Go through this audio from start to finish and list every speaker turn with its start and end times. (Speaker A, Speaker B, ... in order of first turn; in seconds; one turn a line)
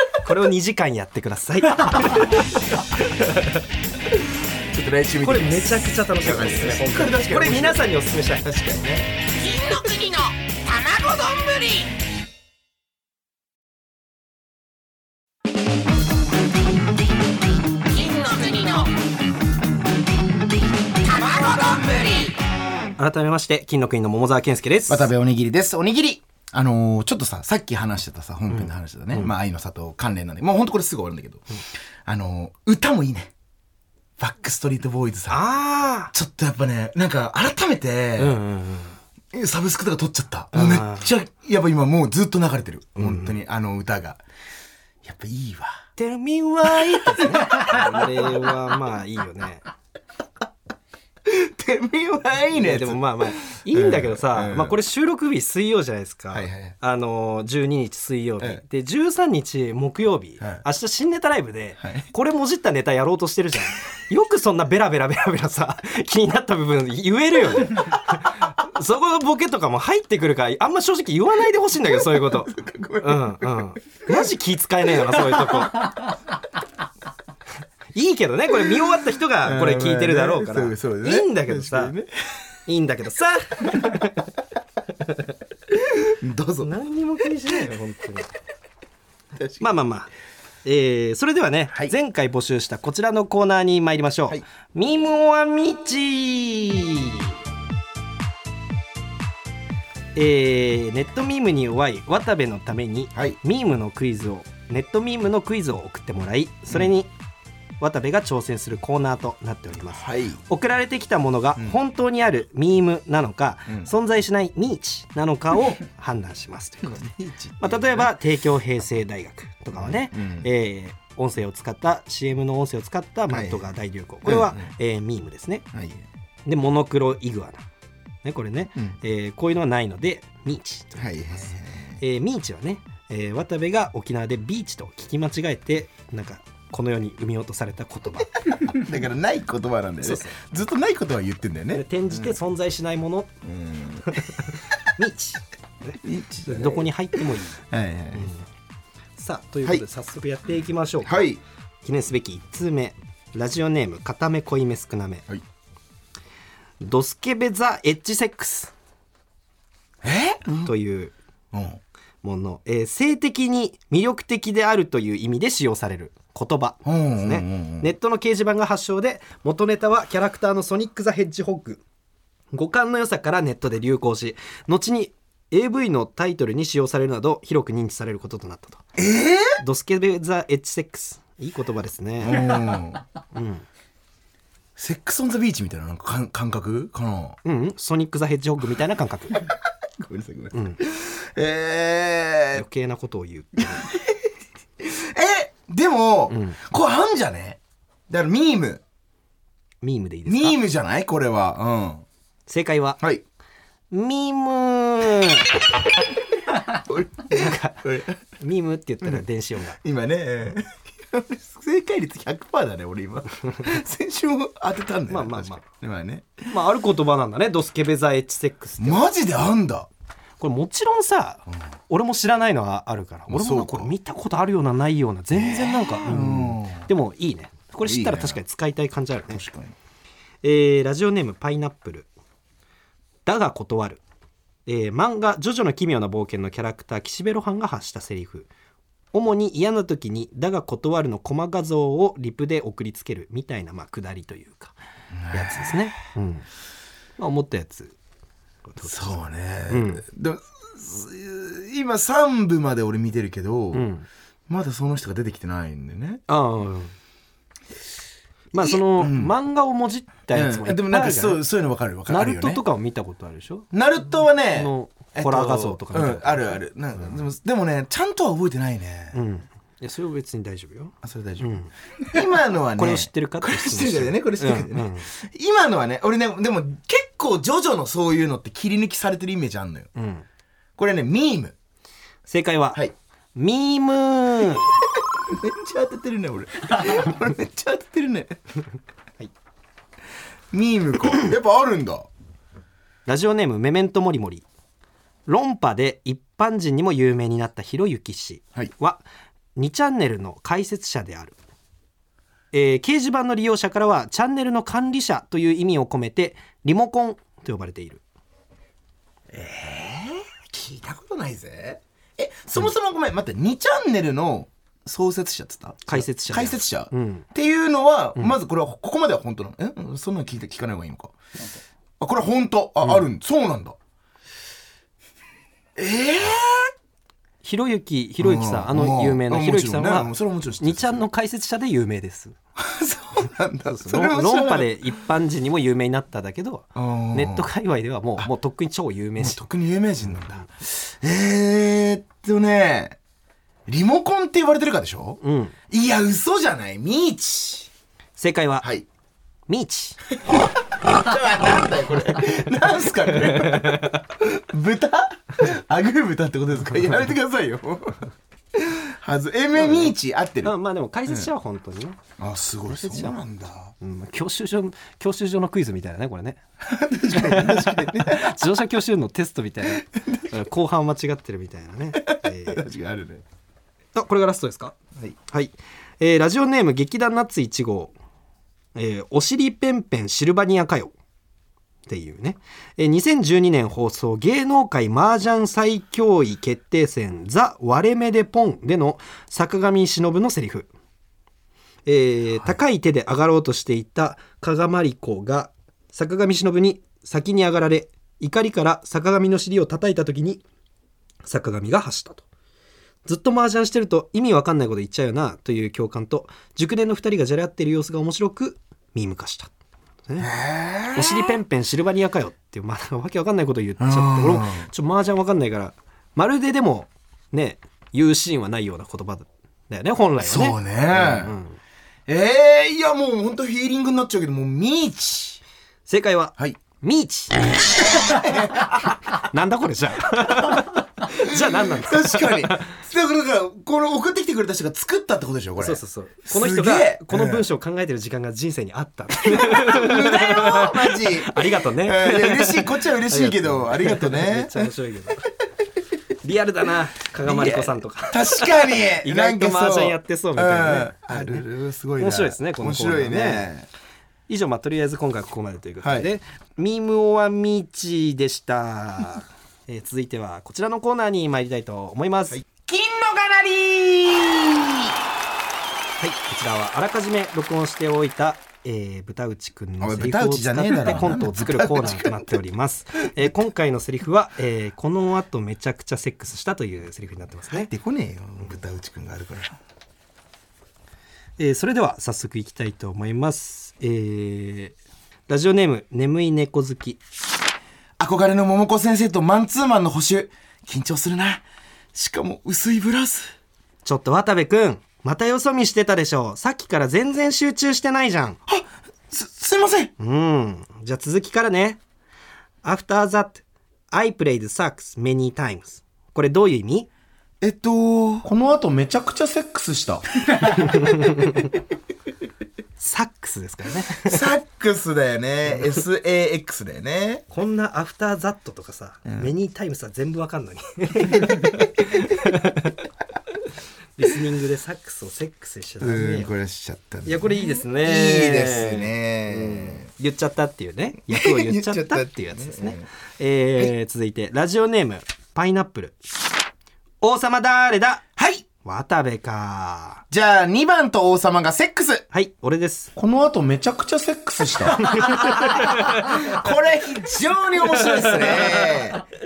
Speaker A: 0.2-2.5
Speaker A: 3.2-3.5
Speaker B: 4.7-9.1
Speaker A: 5.2-8.4
Speaker C: 9.3-11.9
Speaker C: 17.9-18.9
Speaker C: 21.0-22.4
Speaker A: 23.0-25.1
Speaker B: 24.9-31.4
Speaker A: 28.5-29.3
Speaker B: 32.1-33.3
Speaker B: 34.2-35.4
Speaker A: 35.3-36.1
Speaker B: 36.1-38.4
Speaker A: 38.2-39.0
Speaker B: 39.3-44.2
Speaker A: 40.5-41.1
Speaker A: 43.0-43.4
Speaker B: 45.0-45.9
Speaker A: 46.0-49.6
Speaker B: 46.7-48.3
Speaker B: 51.2-54.8
Speaker A: 52.5-75.9
Speaker B: 56.3-56.8
Speaker B: 61.8-62.1
Speaker B: 71.9-74.2
Speaker B: 75.1-75.6
Speaker A: 78.0-81.9
Speaker B: 79.4-82.1
Speaker A: 82.7-84.3
Speaker B: 85.8-86.7
Speaker A: 86.6-88.3
Speaker B: 89.3-89.7
Speaker A: 89.6-90.1
Speaker A: 90.6-97.3
Speaker A: 100.2-107.1
Speaker A: 107.8-117.1
Speaker B: 110.0-110.4
Speaker B: 116.8-118.1
Speaker A: 117.6-125.7
Speaker B: 119.7-120.5
Speaker B: 123.3-123.7
Speaker B: 124.2-124.7
Speaker B: 125.7-126.0
Speaker A: 126.5-127.7
Speaker A: 128.2-138.6
Speaker B: 131.0-132.0
Speaker B: 138.5-142.3
Speaker A: 140.0-140.4
Speaker A: 141.7-143.3
Speaker B: 143.4-144.6
Speaker A: 144.1-147.6
Speaker B: 146.0-148.3
Speaker A: 148.2-148.4
Speaker A: 149.2-151.3
Speaker B: 151.0-151.4
Speaker A: 151.8-155.3
Speaker A: 156.8-158.7
Speaker B: 160.0-160.7
Speaker A: 160.6-161.1
Speaker B: 161.5-161.8
Speaker A: 162.2-171.8
Speaker B: 166.8-167.9
Speaker A: 172.5-178.8
Speaker B: 179.0-179.6
Speaker A: 179.6-182.6
Speaker B: 182.2-183.0
Speaker A: 183.3-183.7
Speaker B: 184.8-187.4
Speaker A: 187.4-189.5
Speaker B: 189.5-192.6
Speaker A: 190.5-190.8
Speaker A: 192.5-193.9
Speaker B: 193.6-194.3
Speaker B: 194.8-198.8
Speaker A: 196.3-196.6
Speaker A: 199.8-200.6
Speaker B: 200.3-202.1
Speaker A: 202.5-203.0
Speaker A: 203.9-205.5
Speaker B: 206.6-208.2
Speaker A: 207.3-207.8
Speaker A: 208.4-209.8
Speaker B: 209.8-216.5
Speaker A: 215.1-215.7
Speaker A: 216.5-219.1
Speaker B: 218.8-219.9
Speaker A: 220.4-229.4
Speaker B: 223.3-223.9
Speaker B: 225.3-226.9
Speaker B: 227.8-228.4
Speaker B: 229.3-229.8
Speaker A: 230.4-232.1
Speaker A: 233.3-234.0
Speaker A: 234.7-238.5
Speaker A: 239.1-244.8
Speaker B: 245.1-245.9
Speaker A: 245.3-246.5
Speaker A: 247.2-248.0
Speaker A: 248.7-250.0
Speaker B: 248.8-253.9
Speaker A: 253.7-254.1
Speaker B: 254.5-256.2
Speaker A: 256.3-256.9
Speaker A: 258.5-261.4
Speaker B: 258.6-259.3
Speaker B: 260.3-262.6
Speaker A: 262.1-263.7
Speaker B: 263.7-269.2
Speaker A: 264.5-266.6
Speaker A: 269.1-271.7
Speaker B: 271.0-279.9
Speaker A: 272.8-275.1
Speaker A: 279.9-280.2
Speaker B: 280.8-281.6
Speaker A: 282.3-282.8
Speaker A: 283.4-284.8
Speaker B: 285.3-288.4
Speaker B: 290.5-292.1
Speaker A: 293.1-294.4
Speaker A: 295.3-299.0
Speaker A: 299.6-301.4
Speaker A: 302.5-308.0
Speaker B: 309.3-321.2
Speaker A: 315.9-317.2
Speaker B: 322.0-323.8
Speaker B: 325.8-326.7
Speaker A: 327.4-332.4
Speaker B: 328.2-331.0
Speaker B: 332.6-334.8
Speaker A: 333.7-339.4
Speaker B: 336.8-337.5
Speaker B: 339.2-343.0
Speaker B: 343.7-347.7
Speaker A: 345.2-345.6
Speaker A: 348.2-348.7
Speaker A: 349.5-350.0
Speaker B: 350.2-360.5
Speaker A: 353.4-353.9
Speaker A: 359.6-362.0
Speaker B: 362.2-363.7
Speaker A: 362.7-363.2
Speaker A: 363.8-366.4
Speaker B: 366.6-368.4
Speaker A: 367.1-372.6
Speaker B: 369.7-370.3
Speaker B: 372.0-373.2
Speaker A: 373.9-374.8
Speaker A: 375.3-377.9
Speaker A: 378.8-380.9
Speaker A: 381.9-390.7
Speaker A: 391.9-400.4
Speaker A: 401.2-402.2
Speaker A: 403.1-409.5
Speaker A: 410.1-410.3
Speaker B: 410.2-411.4
Speaker A: 410.9-421.6
Speaker B: 413.8-414.7
Speaker B: 420.2-421.4
Speaker B: 422.1-425.4
Speaker A: 425.9-427.4
Speaker B: 427.8-428.9
Speaker A: 428.8-432.8
Speaker B: 430.2-437.5
Speaker A: 435.6-445.3
Speaker B: 439.2-444.7
Speaker A: 446.2-451.4
Speaker B: 447.2-453.7
Speaker A: 452.0-453.5
Speaker A: 454.3-462.4
Speaker B: 455.8-456.1
Speaker B: 462.3-464.9
Speaker A: 466.0-477.7
Speaker B: 469.8-472.4
Speaker B: 477.5-479.6
Speaker A: 481.4-484.8
Speaker A: 485.3-487.0
Speaker B: 488.0-493.3
Speaker A: 493.9-498.4
Speaker B: 498.5-499.9
Speaker A: 500.0-501.8
Speaker A: 502.6-506.9
Speaker B: 507.4-511.4
Speaker A: 510.5-511.5
Speaker A: 512.8-514.3
Speaker B: 514.0-517.2
Speaker A: 517.3-522.7
Speaker B: 521.0-522.1
Speaker A: 524.0-526.3
Speaker B: 525.8-529.9
Speaker A: 527.0-536.0
Speaker B: 531.1-532.9
Speaker A: 537.0-538.0
Speaker B: 538.2-538.5
Speaker A: 538.6-540.0
Speaker B: 540.1-542.0
Speaker A: 542.1-542.9
Speaker B: 543.0-549.0
Speaker A: 544.8-546.4
Speaker A: 547.6-549.0